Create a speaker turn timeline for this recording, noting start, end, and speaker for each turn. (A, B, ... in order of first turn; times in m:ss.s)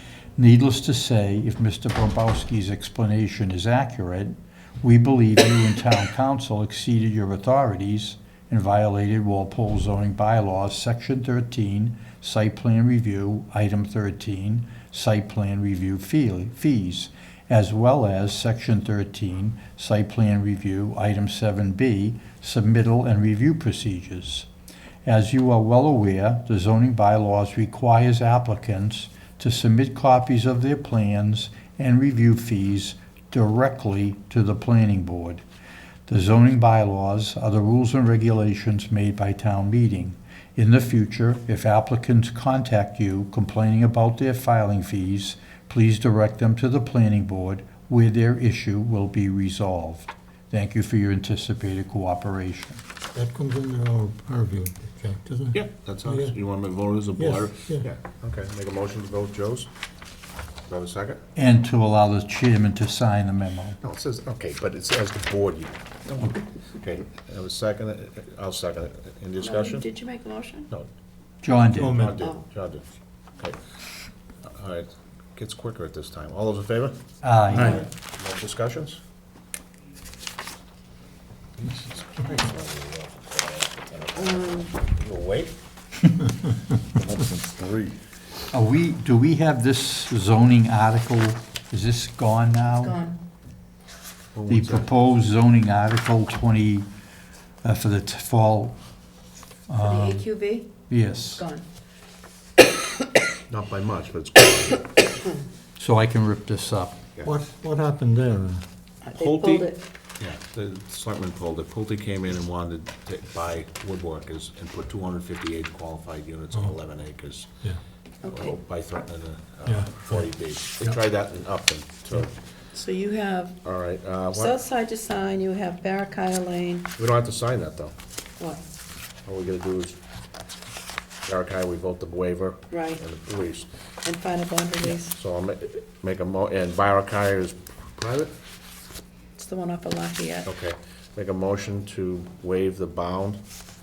0:00.4-0:24.5 A
0:25.1-0:35.4 A
0:36.1-0:52.8 A
0:53.2-0:56.4 B
0:55.5-0:59.7 C
0:57.2-0:57.9 B
1:00.7-1:01.2 C
1:01.4-1:03.8 A
1:03.8-1:09.9 C
1:09.4-1:10.7 D
1:11.4-1:12.1 A
1:11.7-1:12.2 B
1:11.8-1:12.8 C
1:14.4-1:17.0 C
1:17.2-1:17.8 A
1:17.6-1:19.0 C
1:21.6-1:25.5 C
1:24.2-1:24.7 D
1:26.9-1:28.0 C
1:28.5-1:33.0 A
1:32.7-1:33.2 D
1:34.4-1:34.9 C
1:34.5-1:36.9 A
1:37.6-1:38.8 A
1:39.7-1:40.3 A
1:39.8-1:40.7 D
1:40.9-1:41.4 A
1:41.3-1:41.6 D
1:43.5-1:44.9 C
1:45.8-1:47.1 A
1:47.2-1:48.6 B
1:49.0-1:49.8 D
1:49.2-1:57.5 C
1:58.2-1:58.6 D
1:58.3-2:02.3 C
1:59.6-2:00.3 B
2:02.7-2:03.6 D
2:03.6-2:04.6 C
2:04.3-2:06.9 D
2:07.0-2:07.9 C
2:09.3-2:10.0 C
2:11.2-2:13.7 C
2:12.7-2:13.0 D
2:14.0-2:15.1 D
2:14.8-2:18.3 C
2:19.4-2:20.5 D
2:20.4-2:23.4 C